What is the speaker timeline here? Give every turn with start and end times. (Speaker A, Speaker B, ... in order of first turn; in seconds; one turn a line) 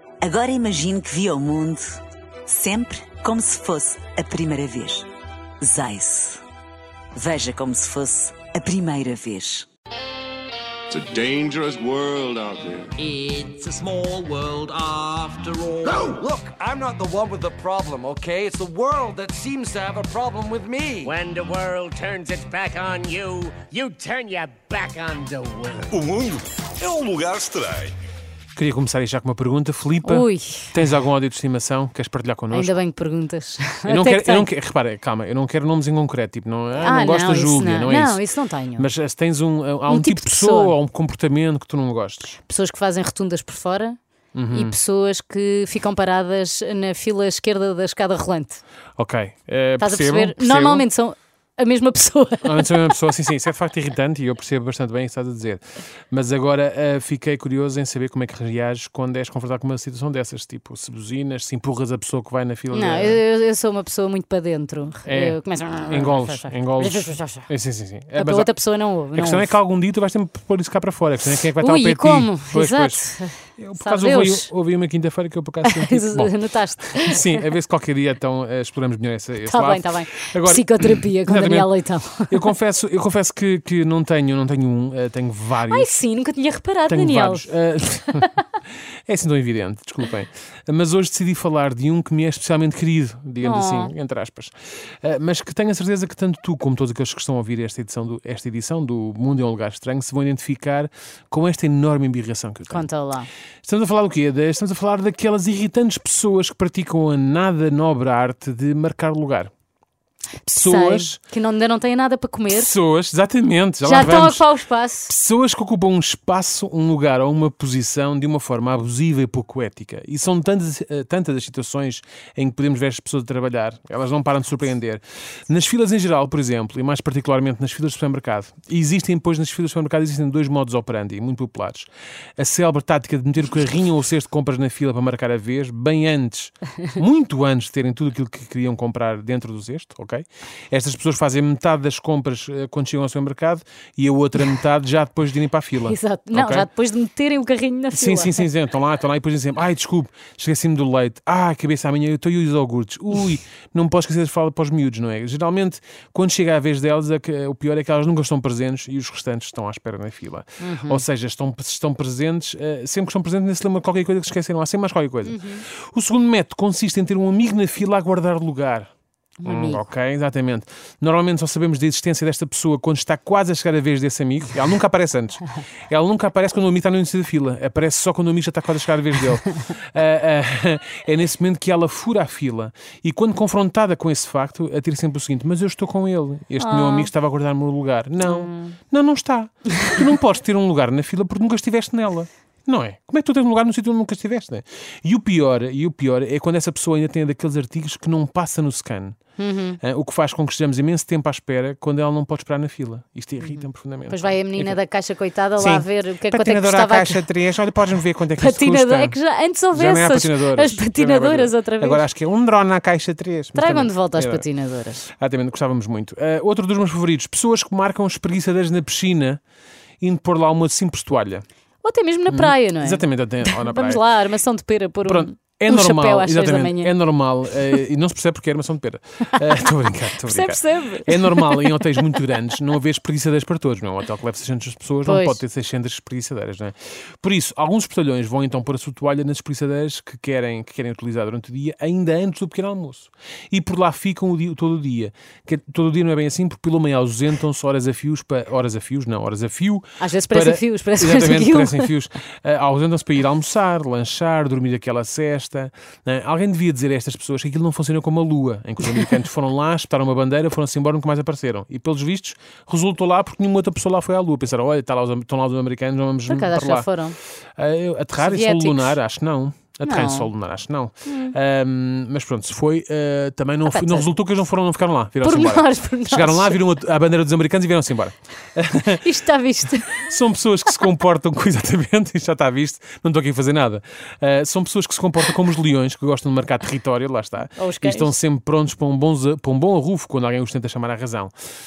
Speaker A: 0.2-5.1
Speaker A: 5.6-6.4
Speaker A: 7.2-9.7
Speaker B: 10.9-12.9
Speaker C: 13.0-16.1
Speaker D: 15.8-21.1
Speaker E: 21.0-26.0
Speaker F: 25.9-28.0
Speaker G: 28.6-32.8
Speaker H: 30.1-30.7
Speaker H: 32.5-34.5
Speaker G: 33.9-38.2
Speaker H: 36.8-38.9
Speaker G: 38.8-42.4
Speaker H: 39.9-40.8
Speaker H: 42.4-44.0
Speaker G: 44.4-44.8
Speaker H: 44.5-48.6
Speaker G: 49.0-50.9
Speaker H: 49.8-52.7
Speaker G: 52.4-63.2
Speaker H: 62.7-67.5
Speaker G: 65.0-68.5
Speaker H: 68.2-69.5
Speaker G: 69.1-76.3
Speaker H: 71.6-74.5
Speaker H: 75.6-77.2
Speaker G: 76.9-81.7
Speaker H: 79.4-82.5
Speaker G: 82.3-85.9
Speaker H: 85.7-87.5
Speaker G: 86.9-88.3
Speaker G: 89.1-102.9
Speaker H: 93.4-93.9
Speaker H: 102.7-103.3
Speaker G: 103.6-109.5
Speaker H: 110.4-112.7
Speaker G: 110.5-111.2
Speaker G: 112.5-114.5
Speaker H: 113.8-115.1
Speaker G: 115.1-146.7
Speaker H: 145.8-148.5
Speaker G: 147.9-168.9
Speaker H: 160.6-161.0
Speaker H: 165.2-165.6
Speaker H: 169.4-169.8
Speaker G: 169.4-199.2
Speaker H: 186.6-187.1
Speaker H: 188.2-188.8
Speaker H: 199.4-199.8
Speaker G: 199.8-204.8
Speaker H: 204.1-207.2
Speaker G: 205.6-209.2
Speaker H: 208.4-212.0
Speaker G: 209.7-214.5
Speaker H: 213.6-215.1
Speaker G: 215.1-219.4
Speaker G: 220.0-221.4
Speaker H: 221.8-226.9
Speaker G: 222.3-224.0
Speaker G: 225.1-266.9
Speaker H: 230.2-232.2
Speaker H: 235.0-235.4
Speaker H: 250.0-251.9
Speaker H: 266.3-267.2
Speaker G: 267.6-279.0
Speaker H: 268.2-269.0
Speaker H: 269.9-270.3
Speaker H: 271.1-271.3
Speaker H: 273.7-274.1
Speaker H: 275.2-276.6
Speaker H: 278.9-280.0
Speaker G: 279.9-291.3
Speaker H: 287.6-288.1